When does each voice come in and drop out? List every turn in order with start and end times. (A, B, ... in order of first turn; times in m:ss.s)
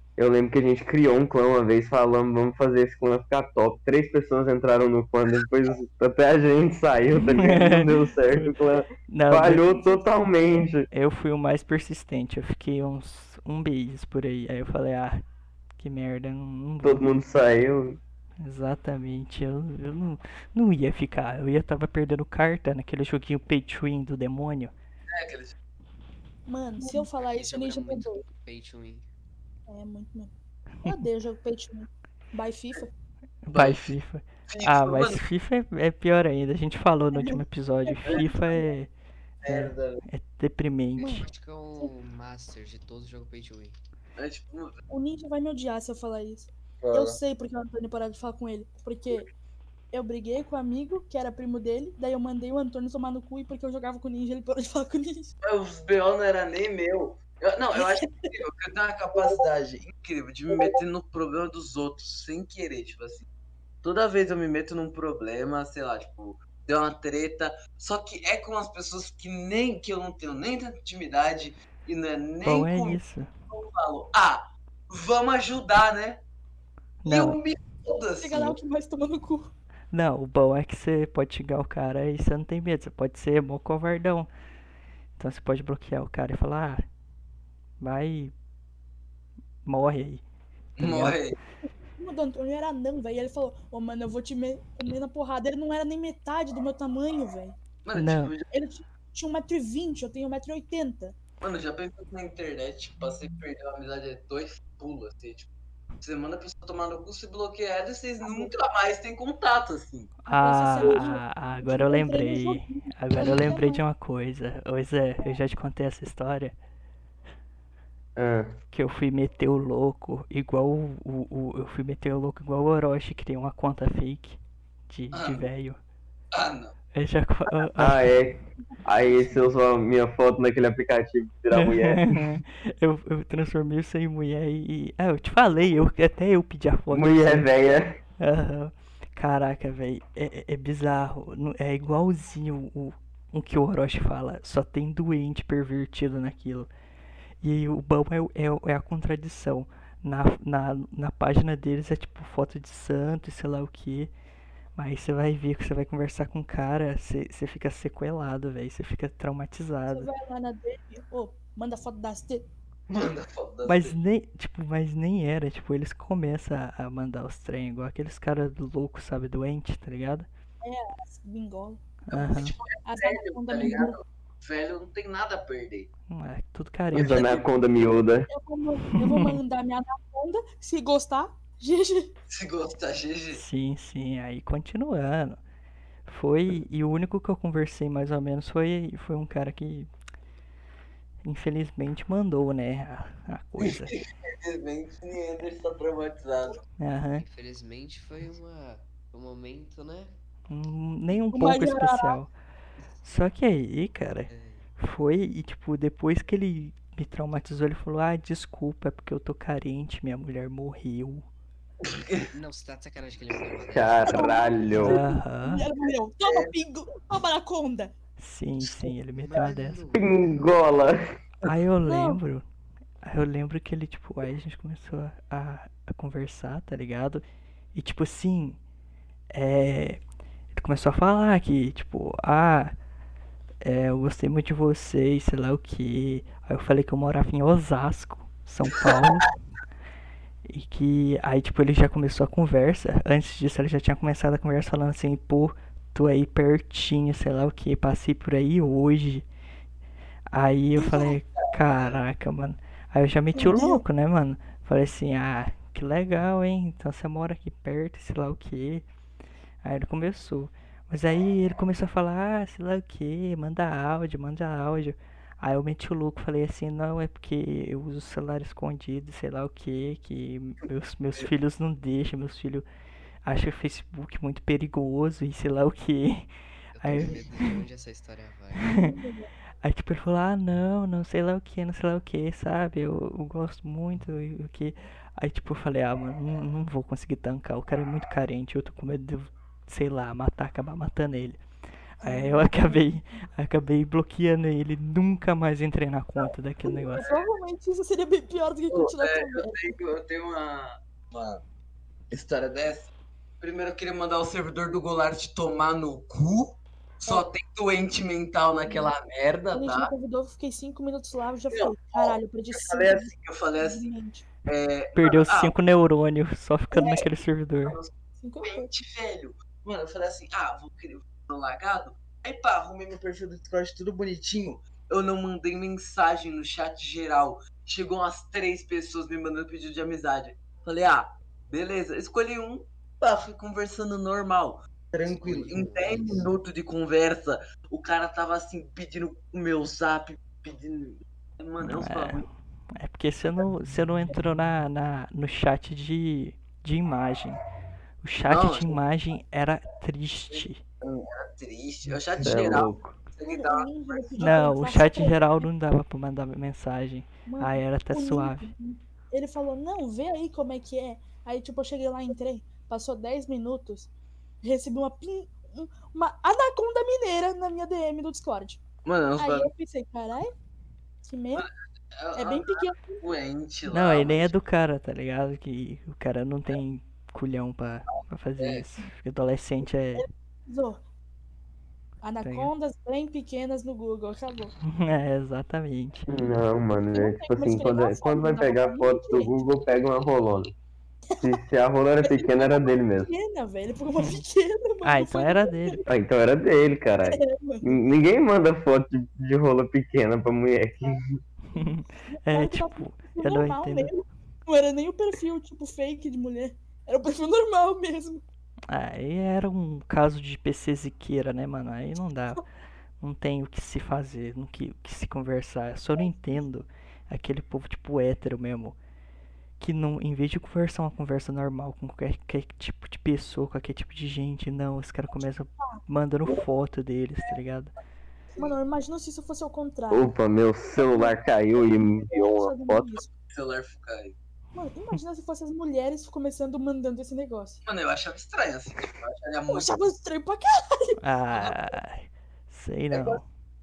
0:00.2-0:10.9 A
0:07.2-0:10.0 B
0:10.9-0:15.2 B
0:15.8-0:17.0 B
0:16.8-0:18.0 A
0:18.4-0:24.7 B
0:25.1-0:25.5 C
0:26.5-0:28.2 D
0:27.3-0:29.0 E
0:29.7-0:30.3 D
0:30.8-0:32.9 D
0:33.4-0:38.9 B
0:33.5-0:33.9 C
0:34.5-0:35.2 C
0:37.1-0:38.7 D
0:39.4-0:40.0 C
0:39.4-0:41.2 B
0:41.0-0:41.9 D
0:41.0-0:43.8 E
0:44.2-0:44.8 C
0:44.9-0:49.3 D
0:46.8-0:47.2 C
0:49.9-0:55.3 D
0:55.4-1:03.2 C
0:57.7-0:58.2 D
1:03.8-1:16.2 C
1:12.4-1:13.3 B
1:17.0-1:17.4 B
1:17.1-1:18.6 C
1:18.2-1:19.5 D
1:19.9-1:24.3 B
1:25.2-1:26.8 B
1:27.8-1:28.3 B
1:29.6-1:30.2 B
1:30.8-1:31.2 B
1:30.8-1:31.4 C
1:32.0-1:37.6 D
1:37.8-1:38.4 C
1:37.9-1:38.3 B
1:38.5-1:41.1 D
1:41.4-1:45.5 C
1:46.0-1:50.1 C
1:48.2-1:48.5 D
1:50.2-1:56.6 B
1:50.3-1:53.8 D
1:58.2-1:58.6 A
1:58.7-2:04.4 B
2:04.9-2:05.8 B
2:05.1-2:05.5 C
2:06.3-2:06.7 C
2:06.9-2:08.0 B
2:07.8-2:12.2 A
2:08.6-2:09.4 D
2:11.5-2:26.7 B
2:16.9-2:18.0 A
2:27.4-2:34.1 B
2:34.8-2:40.1 B
2:39.9-2:42.5 D
2:42.9-2:44.0 C
2:43.6-2:50.3 B
2:50.6-2:51.8 D
2:52.1-2:52.6 B
2:52.1-2:55.9 C
2:52.8-2:54.0 D
2:56.1-2:57.4 B
2:56.9-2:57.4 C
2:56.9-2:58.3 A
2:58.3-3:02.1 D
2:58.9-2:59.4 B
3:02.3-3:03.4 C
3:03.3-3:05.4 B
3:06.0-3:09.9 B
3:11.2-3:13.9 B
3:13.6-3:16.6 C
3:16.8-3:17.2 B
3:17.2-3:20.2 E
3:20.5-3:22.3 B
3:21.3-3:22.2 D
3:23.0-3:31.2 B
3:24.3-3:24.6 E
3:31.9-3:32.3 C
3:32.3-3:34.5 E
3:33.7-3:35.0 A
3:34.0-3:37.9 D
3:34.7-3:35.6 B
3:36.2-3:36.5 C
3:38.2-3:39.8 B
3:38.7-3:39.4 C
3:39.2-3:40.1 E
3:39.9-3:41.0 A
3:41.4-3:42.4 B
3:41.8-3:42.2 D
3:43.0-3:47.2 B
3:47.7-3:48.6 B
3:49.3-3:50.0 B
3:50.5-3:52.7 B
3:53.6-3:59.3 B
3:58.8-3:59.1 C
4:00.4-4:09.2 B
4:10.3-4:18.8 B
4:10.8-4:11.2 D
4:11.4-4:12.0 C
4:13.3-4:13.8 D
4:19.6-4:32.6 B
4:33.2-4:37.6 B
4:36.7-4:38.7 E
4:38.6-4:39.0 B
4:38.7-4:39.3 D
4:39.6-4:51.4 B
4:52.0-4:52.8 D
4:52.0-4:57.0 B
4:56.9-4:57.2 C
4:56.9-4:59.7 D
4:58.7-5:01.4 C
5:02.1-5:09.9 C
5:09.5-5:14.2 D
5:11.5-5:13.9 C
5:14.4-5:15.5 C
5:15.0-5:17.8 B
5:16.7-5:17.0 D
5:17.6-5:17.9 C
5:18.2-5:18.7 D
5:18.4-5:42.2 C
5:35.0-5:36.3 E
5:41.6-5:47.4 B
5:48.0-5:50.6 B
5:48.2-5:48.8 C
5:50.3-5:54.4 C
5:52.2-5:52.9 A
5:53.3-5:55.5 D
5:54.2-5:58.5 B
5:57.3-6:03.9 D
6:04.4-6:08.6 D
6:08.8-6:09.5 C
6:09.2-6:10.3 D
6:11.0-6:11.5 D
6:11.4-6:14.4 C
6:12.1-6:13.0 D
6:13.7-6:20.0 B
6:18.4-6:18.6 C
6:19.9-6:20.8 D
6:22.0-6:24.5 D
6:22.2-6:22.5 B
6:24.6-6:26.1 B
6:26.1-6:30.5 A
6:26.9-6:29.5 D
6:31.1-6:31.4 D
6:31.2-6:33.1 A
6:32.0-6:35.8 D
6:34.0-6:34.2 B
6:34.8-6:35.8 B
6:35.9-6:41.0 A
6:37.0-6:37.7 D
6:41.5-6:43.9 B
6:41.6-6:48.2 D
6:48.7-6:52.4 B
6:53.0-6:58.8 B
6:56.0-6:56.4 D
6:59.6-7:07.7 B
7:08.4-7:10.1 D
7:09.9-7:13.0 A
7:10.7-7:13.1 D
7:13.2-7:14.2 C
7:14.5-7:17.6 D
7:17.6-7:19.8 C
7:19.5-7:21.0 D
7:21.0-7:23.2 B
7:22.9-7:23.2 C